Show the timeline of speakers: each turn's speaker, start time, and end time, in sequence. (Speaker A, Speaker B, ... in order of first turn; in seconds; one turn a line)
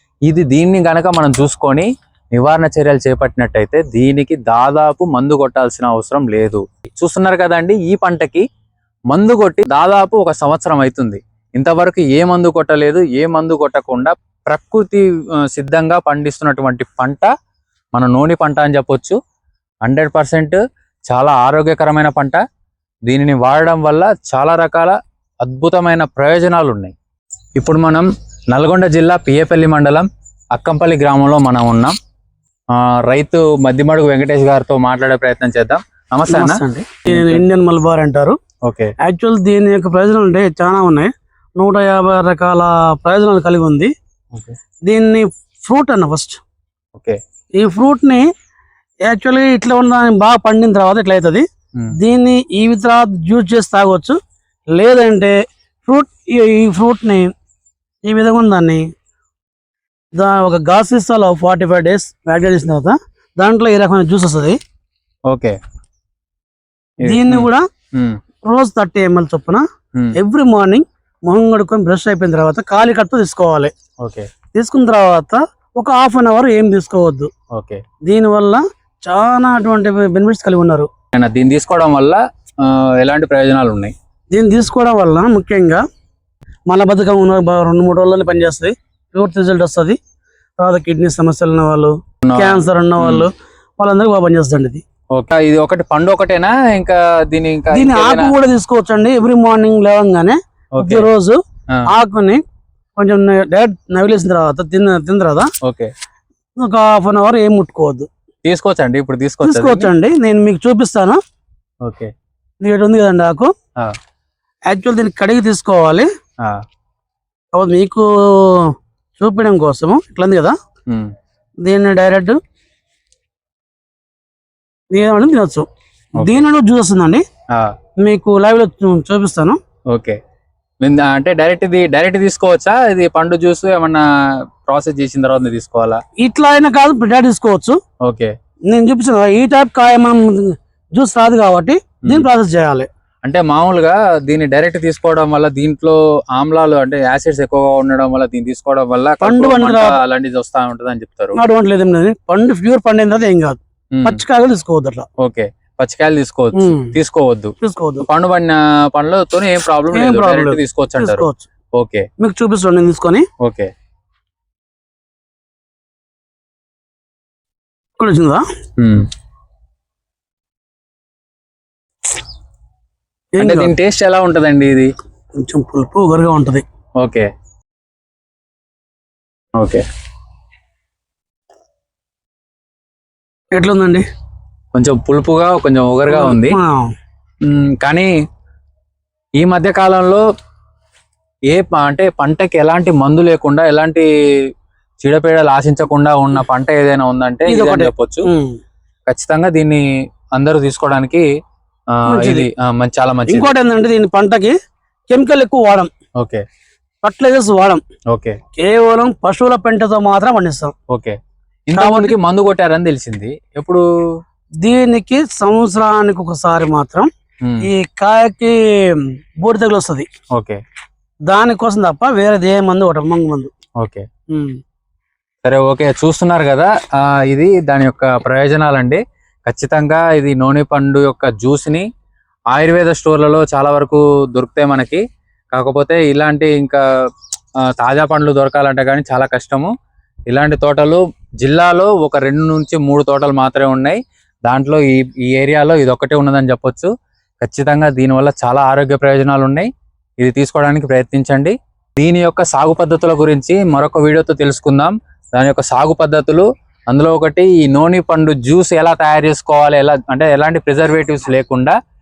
Speaker A: 0.3-8.4
Speaker A: 9.1-17.3
Speaker A: 17.9-19.1
Speaker A: 19.8-22.4
Speaker A: 23.1-26.9
Speaker A: 27.6-31.9
Speaker A: 32.8-37.4
Speaker B: 36.3-38.4
Speaker A: 38.6-38.9
Speaker B: 39.0-43.9
Speaker B: 44.8-46.4
Speaker B: 47.6-48.2
Speaker B: 49.0-51.4
Speaker B: 52.0-54.2
Speaker B: 54.7-55.3
Speaker B: 55.9-57.3
Speaker B: 58.0-58.8
Speaker B: 60.1-64.6
Speaker A: 65.3-65.5
Speaker B: 67.0-67.7
Speaker A: 67.0-68.2
Speaker B: 68.4-69.6
Speaker B: 70.1-73.7
Speaker B: 74.5-77.3
Speaker A: 77.5-77.8
Speaker B: 78.0-80.9
Speaker A: 81.1-83.9
Speaker B: 84.3-85.8
Speaker B: 86.7-90.0
Speaker B: 90.6-94.8
Speaker A: 92.2-93.3
Speaker A: 95.1-98.3
Speaker B: 97.7-102.4
Speaker A: 100.7-101.1
Speaker B: 103.0-105.5
Speaker A: 105.6-105.9
Speaker B: 106.6-108.1
Speaker A: 108.4-109.9
Speaker B: 109.4-111.2
Speaker A: 111.8-112.1
Speaker B: 112.6-113.5
Speaker B: 114.7-116.1
Speaker B: 117.5-120.5
Speaker B: 121.6-122.4
Speaker B: 124.9-125.7
Speaker A: 126.2-126.4
Speaker B: 126.2-127.2
Speaker B: 128.0-129.6
Speaker A: 130.8-134.0
Speaker A: 134.6-136.0
Speaker B: 136.2-137.8
Speaker A: 138.0-138.3
Speaker B: 138.7-142.9
Speaker A: 143.2-151.4
Speaker B: 149.2-150.0
Speaker B: 151.3-155.1
Speaker A: 153.9-154.2
Speaker A: 155.2-161.2
Speaker B: 156.5-156.9
Speaker B: 157.6-158.1
Speaker B: 159.9-161.4
Speaker A: 161.8-162.1
Speaker B: 162.2-163.2
Speaker A: 163.4-163.7
Speaker B: 168.0-168.4
Speaker A: 168.8-169.1
Speaker B: 173.3-173.7
Speaker A: 173.4-174.9
Speaker B: 175.4-176.6
Speaker A: 177.0-177.3
Speaker B: 183.5-184.0
Speaker A: 184.7-186.6
Speaker B: 186.1-186.9
Speaker A: 187.4-188.1
Speaker A: 189.4-190.2
Speaker A: 191.5-194.1
Speaker A: 195.0-198.3
Speaker B: 197.5-198.6
Speaker A: 199.1-201.2
Speaker A: 202.0-203.5
Speaker B: 202.1-202.5
Speaker B: 203.3-204.5
Speaker B: 205.1-205.9
Speaker B: 207.0-207.8
Speaker A: 208.1-208.4
Speaker B: 208.6-210.7
Speaker A: 210.9-211.2
Speaker A: 211.7-213.8
Speaker B: 211.8-212.2
Speaker B: 214.6-217.1
Speaker A: 217.4-217.7
Speaker B: 217.6-220.1
Speaker A: 220.3-220.6
Speaker B: 221.3-223.5
Speaker A: 223.8-224.0
Speaker B: 224.3-224.6
Speaker A: 225.4-231.8
Speaker A: 232.5-235.0
Speaker A: 235.5-236.8
Speaker A: 237.7-239.7
Speaker A: 240.3-249.7
Speaker A: 250.2-261.7